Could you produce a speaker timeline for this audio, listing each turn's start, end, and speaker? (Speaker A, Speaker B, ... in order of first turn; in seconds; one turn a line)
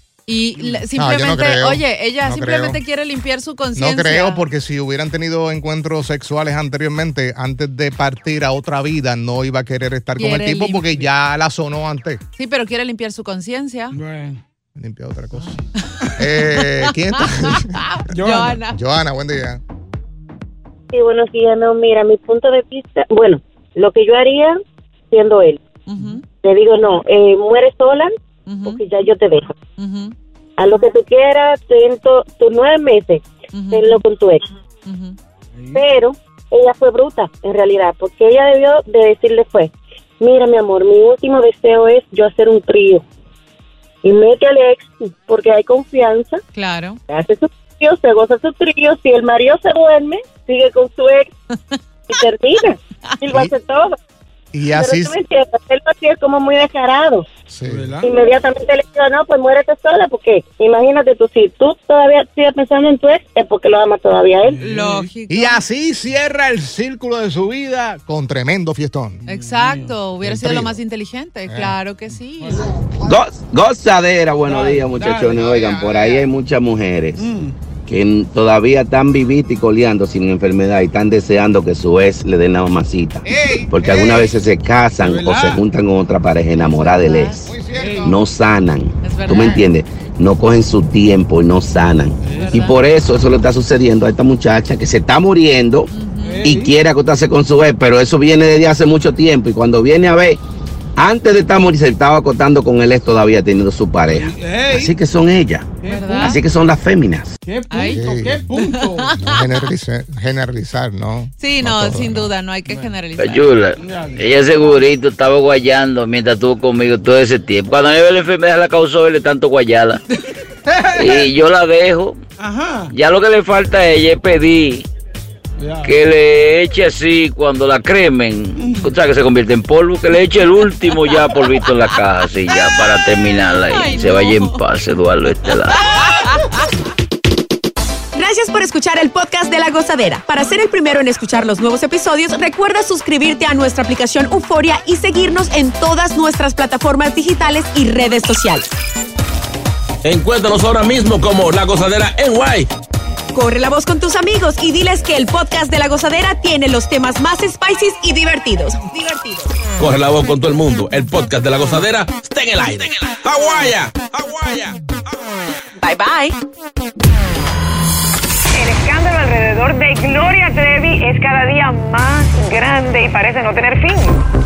Speaker A: 0.3-4.5
Speaker B: 0.6-0.9
Speaker C: 0.9-2.8
Speaker C: 3.8-12.2
Speaker A: 10.2-11.1
Speaker A: 12.4-14.0
Speaker B: 13.9-14.4
Speaker C: 14.8-15.6
Speaker A: 15.8-18.8
Speaker C: 16.2-17.8
Speaker B: 18.1-18.6
Speaker C: 18.7-19.6
Speaker D: 20.9-24.6
Speaker D: 25.1-25.6
Speaker A: 25.9-26.2
Speaker D: 26.4-28.1
Speaker A: 28.5-28.8
Speaker D: 28.6-29.6
Speaker A: 29.8-30.1
Speaker D: 30.6-34.4
Speaker A: 33.5-34.0
Speaker A: 34.9-35.2
Speaker B: 35.5-35.8
Speaker D: 35.7-43.0
Speaker D: 44.0-46.4
Speaker A: 46.5-47.0
Speaker D: 47.1-51.3
Speaker A: 51.7-52.2
Speaker D: 52.1-54.0
Speaker C: 54.5-55.1
Speaker D: 54.7-57.2
Speaker C: 57.5-58.0
Speaker B: 57.6-58.1
Speaker D: 58.0-64.6
Speaker B: 64.4-65.1
Speaker A: 64.6-65.6
Speaker C: 65.3-69.2
Speaker B: 69.3-70.6
Speaker A: 69.3-72.6
Speaker C: 70.3-70.7
Speaker C: 71.5-71.8
Speaker B: 72.4-72.7
Speaker E: 73.0-77.3
Speaker B: 74.4-75.6
Speaker C: 75.2-76.3
Speaker B: 77.2-77.6
Speaker E: 77.9-87.5
Speaker C: 83.2-84.4
Speaker B: 85.0-85.7
Speaker A: 86.5-87.6
Speaker C: 87.5-88.2
Speaker B: 87.7-88.3
Speaker E: 88.0-95.9
Speaker A: 89.0-89.7
Speaker B: 92.2-92.7
Speaker A: 92.3-92.8
Speaker A: 95.9-96.5
Speaker B: 96.2-96.8
Speaker E: 96.4-100.4
Speaker E: 101.0-105.7
Speaker B: 104.0-105.0
Speaker B: 105.8-106.4
Speaker A: 105.8-106.4
Speaker E: 106.2-107.3
Speaker B: 107.4-109.2
Speaker A: 107.7-109.5
Speaker C: 107.9-108.5
Speaker C: 109.2-112.3
Speaker A: 111.4-113.5
Speaker B: 112.7-113.0
Speaker D: 113.2-115.6
Speaker B: 113.8-114.7
Speaker F: 114.2-119.9
Speaker D: 116.3-120.0
Speaker B: 120.7-121.3
Speaker D: 121.0-121.6
Speaker F: 121.0-122.1
Speaker B: 122.4-122.9
Speaker D: 122.9-124.8
Speaker F: 123.0-124.8
Speaker B: 125.6-126.0
Speaker D: 125.8-127.6
Speaker F: 125.9-132.4
Speaker D: 128.5-135.8
Speaker B: 128.6-129.0
Speaker A: 132.5-133.0
Speaker A: 133.6-134.7
Speaker F: 134.8-135.3
Speaker A: 135.7-136.6
Speaker G: 138.2-148.7
Speaker H: 150.0-152.7
Speaker G: 153.3-159.5
Speaker H: 159.8-164.8
Speaker G: 165.8-166.4
Speaker I: 168.5-174.2